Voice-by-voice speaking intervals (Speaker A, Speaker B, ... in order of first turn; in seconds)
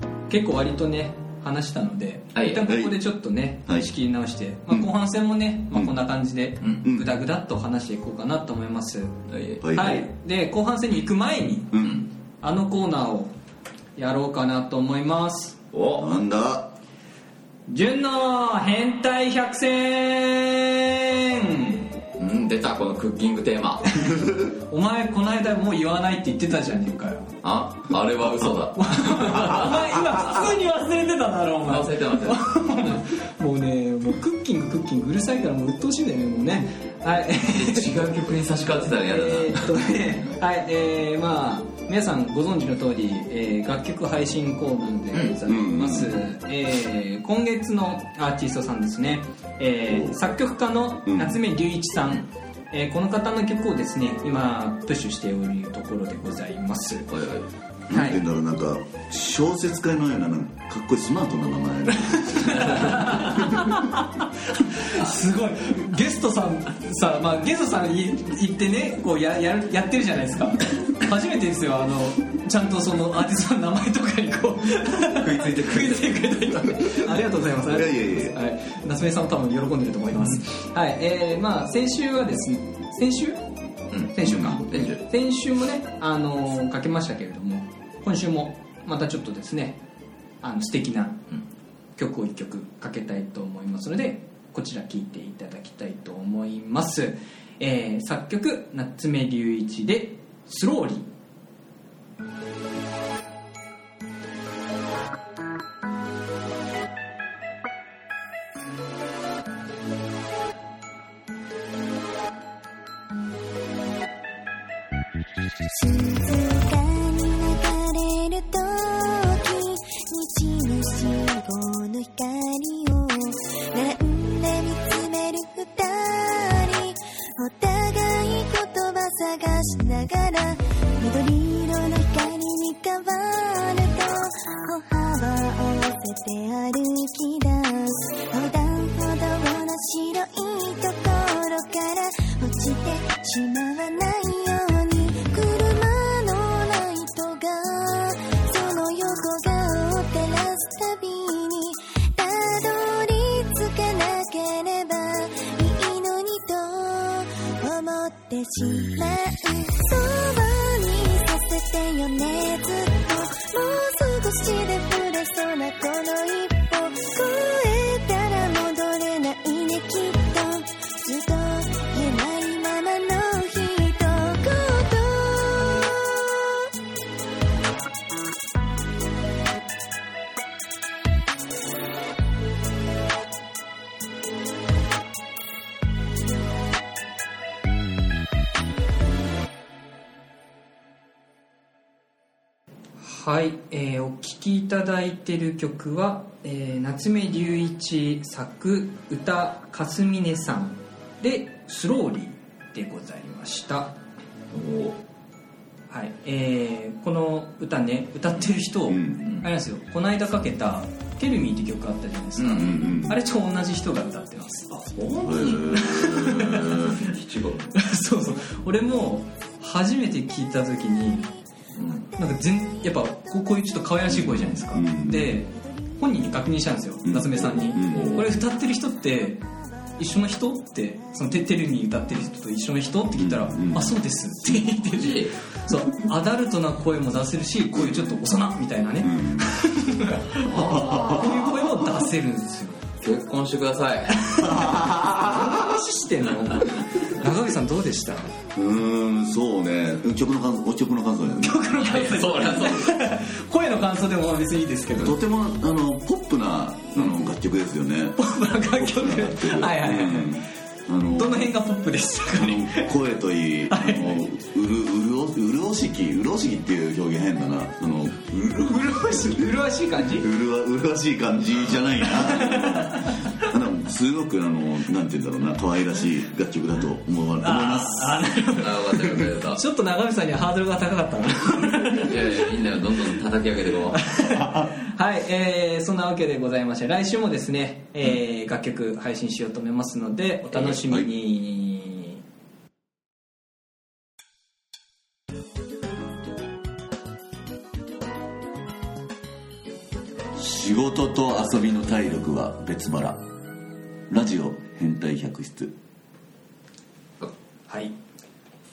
Speaker A: 0.3-9.2, 9.7-11.9, 12.4-13.3, 14.0-15.6, 17.7-21.9, 23.9-27.3, 28.4-38.0, 38.9-57.1, 57.9-58.2, 62.0-83.4, 84.1-89.8, 90.4-91.3, 92.0-101.1, 193.0-204.0, 205.9-217.0, 217.8-221.3, 222.2-229.4, 230.0-242.8, 244.2-248.4, 251.4-255.2, 258.2-260.4, 261.1-262.9, 263.7-264.3, 268.4-270.3, 272.0-273.3, 277.4-282.5, 283.9-292.2, 307.7-307.9
Speaker B: 2.3-2.6, 9.3-9.6, 11.8-12.1, 15.7-16.1, 22.2-24.0, 27.4-30.0, 31.6-33.0, 37.4-40.0, 57.1-57.5, 62.5-62.9, 75.1-76.7, 83.9-85.0, 204.5-205.0, 209.2-209.5, 212.4-212.9, 214.9-217.8, 221.8-222.1, 227.8-228.2, 234.8-235.4, 240.5-241.3, 243.0-244.3, 251.8-253.0, 278.5-279.6, 281.9-284.3
Speaker C: 2.7-3.0, 6.8-7.1, 9.6-10.1, 11.7-12.0, 16.0-16.7, 45.5-46.2, 49.9-50.2, 51.1-51.4, 57.9-63.8, 77.6-78.4, 84.2-84.8, 208.9-209.2, 212.6-213.2, 215.2-216.7, 224.1-225.4, 227.1-228.3, 233.2-234.0, 239.0-239.5, 240.5-241.9, 244.4-245.8, 248.6-252.7, 254.9-261.5, 262.3-269.5, 270.2-278.4, 290.6-291.1, 300.4-303.2, 304.1-305.7
Speaker D: 115.7-176.7